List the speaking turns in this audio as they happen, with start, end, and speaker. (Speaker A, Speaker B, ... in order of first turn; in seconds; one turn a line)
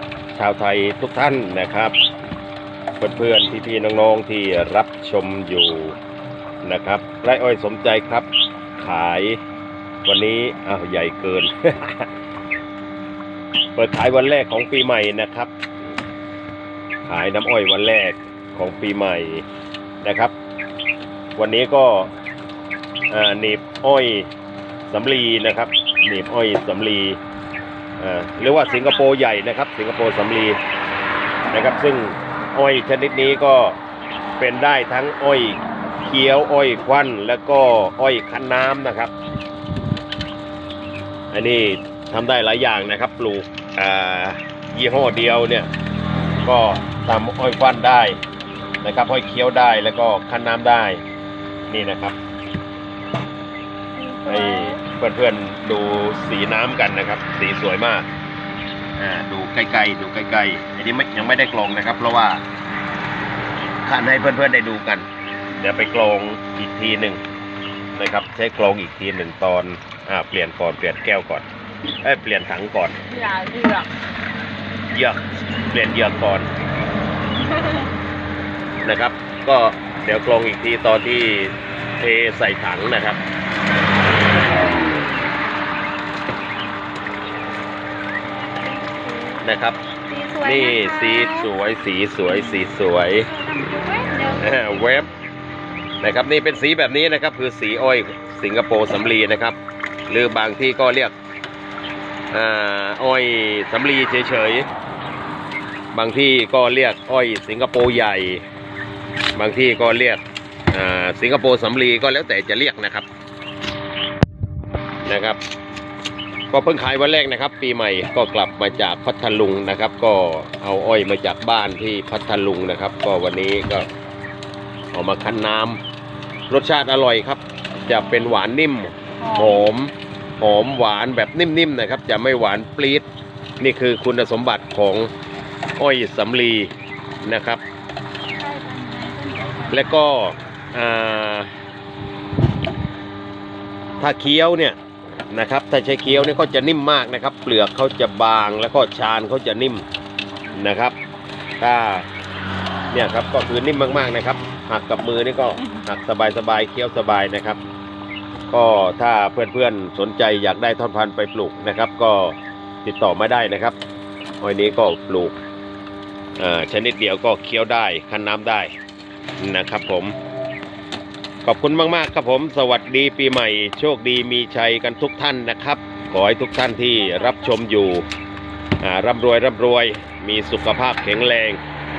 Speaker A: 0.3-1.9
Speaker A: 3.0-6.0
Speaker A: 6.6-9.4
Speaker A: 10.1-12.1
Speaker A: 13.8-15.5
Speaker A: 17.1-19.4
Speaker A: 20.0-20.3
Speaker A: 21.4-22.1
Speaker A: 23.1-24.3
Speaker A: 24.9-27.2
Speaker A: 28.0-30.6
Speaker B: 28.4-29.1
Speaker A: 31.5-33.8
Speaker A: 34.4-39.1
Speaker A: 41.3-45.7
Speaker A: 46.4-48.2
Speaker A: 48.8-51.0
Speaker A: 51.7-52.1
Speaker B: 53.9-54.8
Speaker A: 54.2-58.0
Speaker A: 59.0-62.4
Speaker A: 63.8-67.2
Speaker A: 67.9-71.4
Speaker A: 72.0-73.0
Speaker B: 73.1-73.9
Speaker A: 74.9-76.5
Speaker A: 78.8-83.2
Speaker B: 88.3-89.4
Speaker A: 89.4-89.8
Speaker B: 90.1-91.5
Speaker A: 90.4-93.3
Speaker B: 92.3-94.5
Speaker A: 94.4-95.1
Speaker A: 96.0-99.6
Speaker A: 100.1-101.1
Speaker A: 102.3-104.7
Speaker A: 105.9-108.4
Speaker A: 109.3-113.0
Speaker A: 115.0-115.4
Speaker A: 116.5-123.9
Speaker A: 124.9-125.8
Speaker A: 126.5-133.1
Speaker B: 127.9-128.3
Speaker B: 129.2-129.7
Speaker A: 133.6-135.1
Speaker A: 135.8-136.7
Speaker A: 137.2-137.6
Speaker B: 138.4-139.9
Speaker A: 139.7-141.5
Speaker A: 144.0-144.8
Speaker A: 145.3-149.8
Speaker A: 150.5-150.9
Speaker A: 151.6-152.1
Speaker A: 152.9-157.6
Speaker B: 155.6-155.9
Speaker A: 158.5-163.8
Speaker A: 164.4-165.4
Speaker A: 166.4-168.7
Speaker A: 169.4-170.1
Speaker A: 171.4-178.0
Speaker B: 176.9-177.6
Speaker A: 178.8-181.6